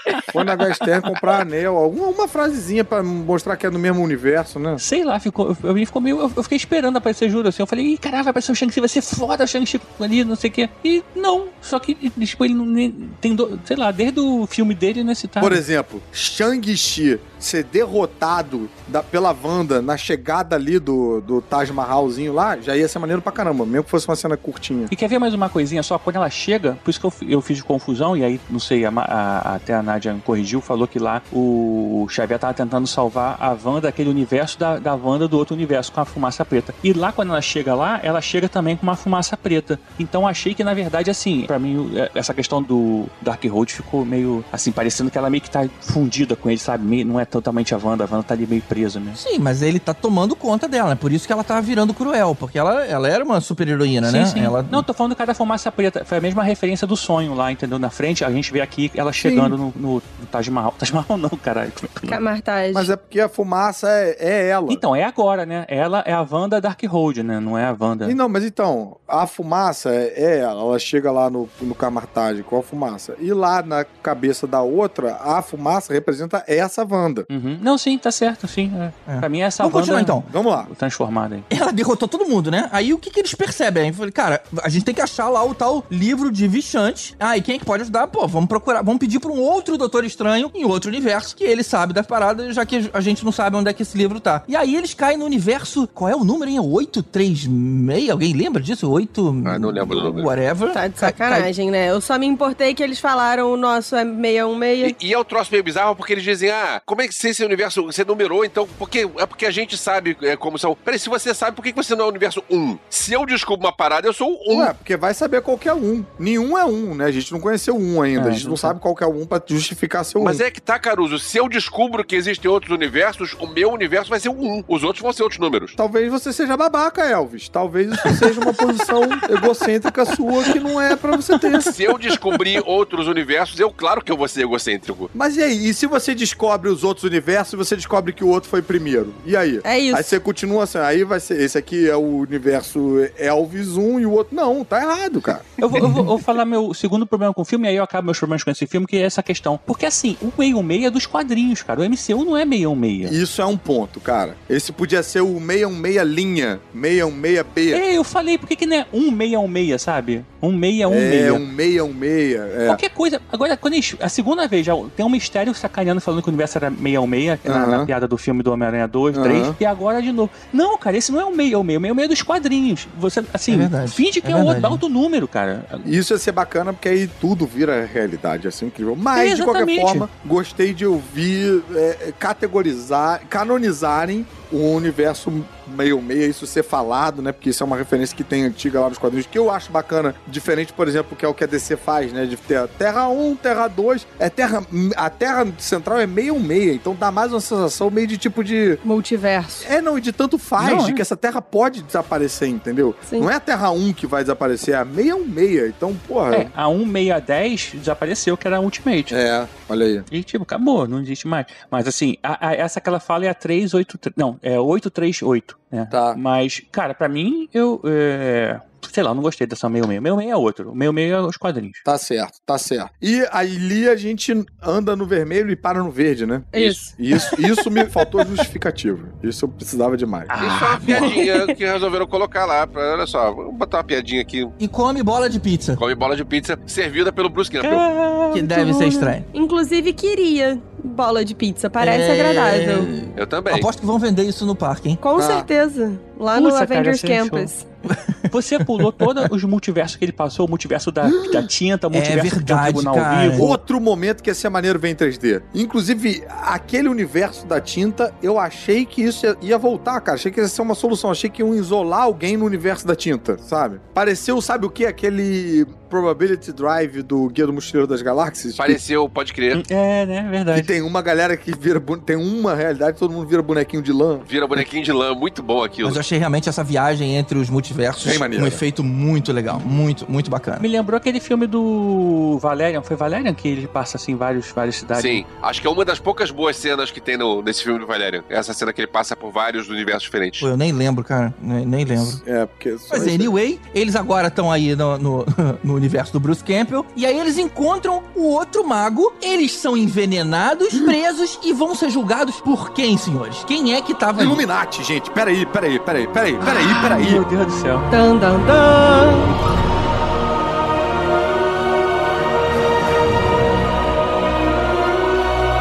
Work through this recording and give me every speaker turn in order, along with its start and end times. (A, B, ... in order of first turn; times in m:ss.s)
0:00.3-0:04.8 A
0:04.8-0:15.6 B
0:15.4-0:24.9 A
0:24.9-0:49.2 B
0:49.1-0:54.8 C
0:54.0-1:02.2 B
0:59.2-0:59.5 A
1:02.1-1:02.9 D
1:02.7-1:04.8 A
1:04.7-1:08.2 B
1:08.0-1:17.3 A
1:17.3-1:21.4 B
1:19.1-1:20.3 C
1:20.3-1:20.7 A
1:21.5-1:41.5 C
1:39.4-1:40.3 E
1:40.7-1:44.9 D
1:44.8-1:54.7 E
1:54.5-2:00.4 A
1:58.2-1:58.8 B
2:00.2-2:05.8 E
2:05.8-2:11.8 A
2:11.6-2:15.1 E
2:15.1-2:26.0 A
2:19.6-2:20.1 D
2:25.6-2:33.1 B
2:33.0-2:37.8 A
2:37.7-2:41.4 B
2:40.9-2:42.8 A
2:42.6-2:55.9 B
2:47.4-2:47.9 A
2:49.1-2:49.5 A
2:53.5-2:54.8 C
2:55.8-3:18.8 A
2:59.1-3:00.0 B
3:18.8-3:19.7 D
3:19.6-3:26.5 A
3:20.6-3:21.0 B
3:26.3-3:29.2 B
3:29.1-3:30.0 A
3:30.1-3:41.8 B
3:35.9-3:36.2 A
3:41.8-3:50.3 A
3:46.5-3:47.6 D
3:46.5-3:46.8 E
3:50.3-3:51.1 B
3:50.4-3:54.5 E
3:51.0-3:51.4 D
3:54.6-3:55.8 C
3:55.8-3:57.8 E
3:57.6-3:58.4 B
3:58.3-3:59.2 C
3:58.3-4:02.9 D
4:01.8-4:05.0 C
4:03.2-4:03.7 E
4:05.0-4:07.6 D
4:05.2-4:05.5 A
4:06.3-4:07.5 B
4:07.8-4:09.3 C
4:08.3-4:13.5 B
4:11.9-4:13.6 C
4:13.4-4:28.8 A
4:28.6-4:29.6 E
4:29.5-4:30.7 B
4:30.5-4:34.3 A
4:34.3-4:36.0 E
4:35.8-4:40.6 C
4:38.0-4:38.6 A
4:40.6-4:45.2 B
4:45.0-4:50.5 E
4:50.4-4:52.2 C
4:52.0-4:53.3 A
4:52.9-5:04.4 C
5:04.2-5:07.2 A
5:06.6-5:07.9 B
5:07.9-5:09.3 D